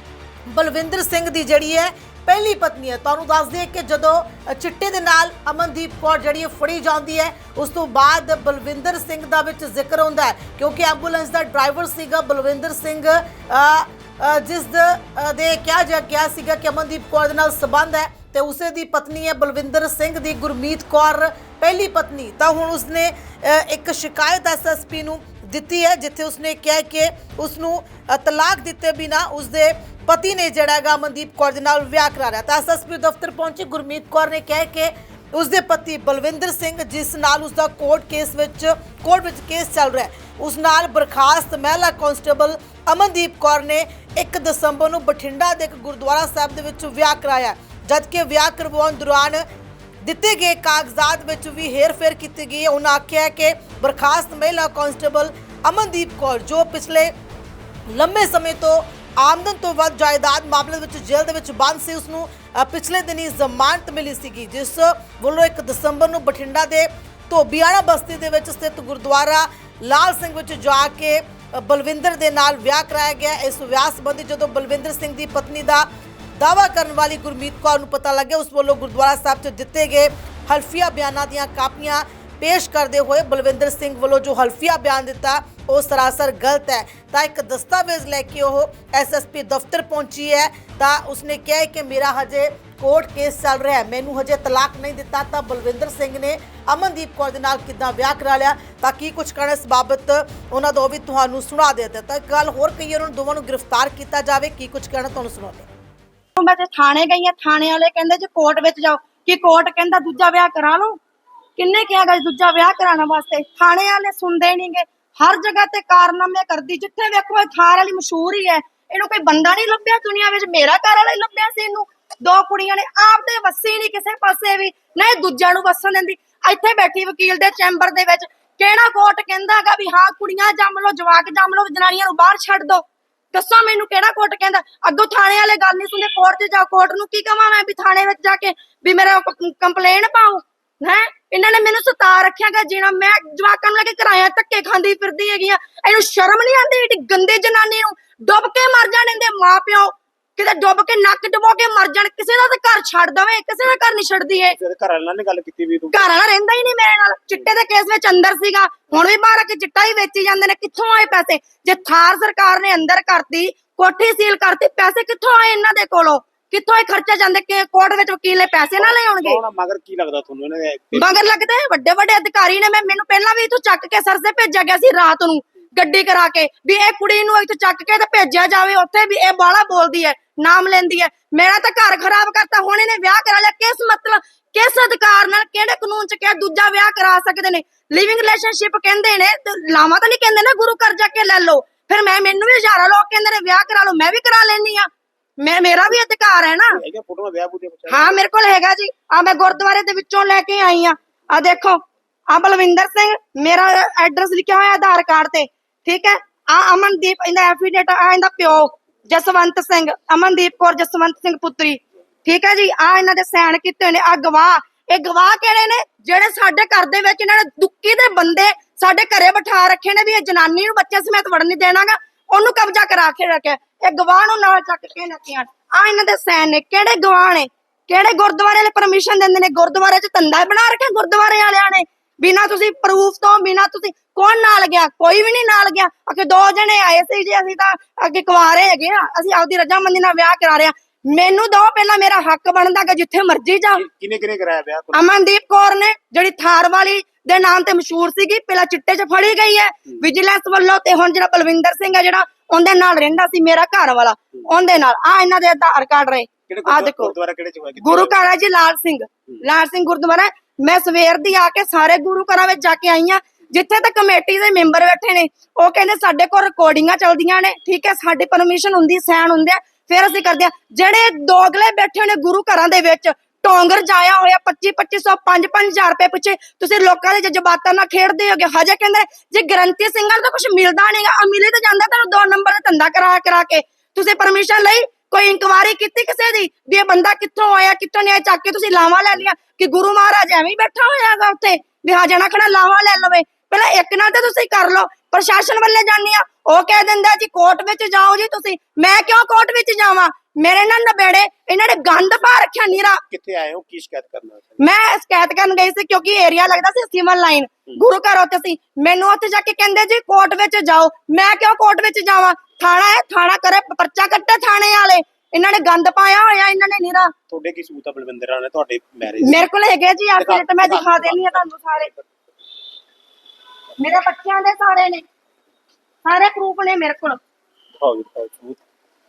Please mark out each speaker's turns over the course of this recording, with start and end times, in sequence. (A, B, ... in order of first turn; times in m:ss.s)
0:00.5-0:49.4 A
0:50.0-0:57.1 A
0:57.9-1:15.8 A
1:16.4-1:45.7 A
1:46.4-1:51.0 B
1:51.6-2:12.8 B
2:13.3-2:34.6 B
2:34.5-2:36.0 C
2:35.9-2:49.4 B
2:48.8-2:51.2 C
2:50.9-3:14.9 B
3:15.4-3:16.8 B
3:16.7-3:18.2 C
3:17.9-4:03.8 B
4:03.8-4:05.1 C
4:04.9-4:17.2 B
4:16.5-4:18.2 C
4:17.8-5:03.0 B
5:03.1-5:04.6 C
5:04.6-5:17.1 B
5:17.3-5:19.4 C
5:19.2-5:21.9 B
5:20.2-5:21.4 C
5:23.8-5:25.0 B
5:26.0-5:27.2 B
5:27.8-5:28.6 C